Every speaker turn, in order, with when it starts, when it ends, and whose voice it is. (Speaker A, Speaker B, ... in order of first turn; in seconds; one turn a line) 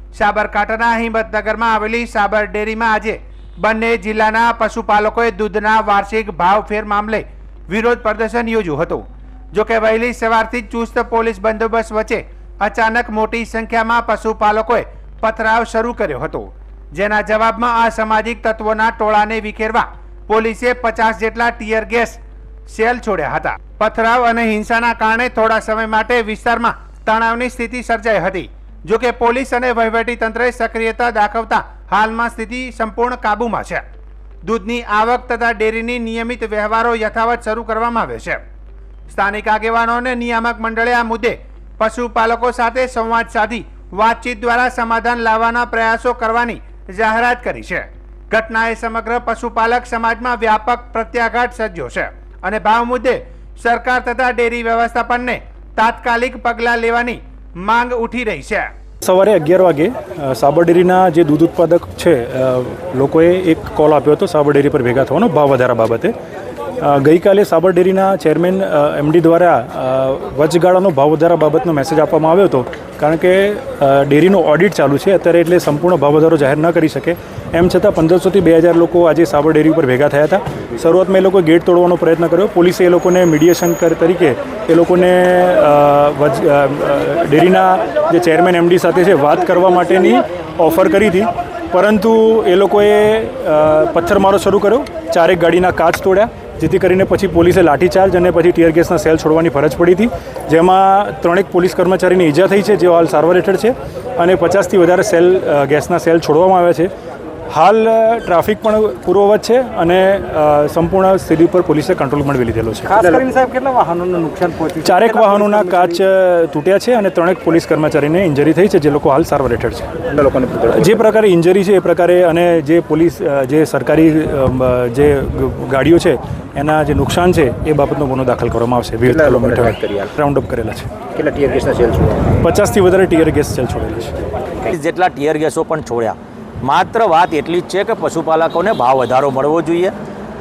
Speaker A: 0.1-33.8
Speaker A: 34.4-38.4
Speaker A: 39.1-58.7
Speaker B: 59.0-66.1
Speaker B: 66.8-106.9
Speaker B: 107.5-113.0
Speaker C: 112.9-114.9
Speaker B: 114.8-119.9
Speaker C: 120.1-121.0
Speaker B: 120.7-130.9
Speaker C: 129.1-130.1
Speaker C: 131.2-132.3
Speaker B: 132.4-134.1
Speaker D: 134.7-139.9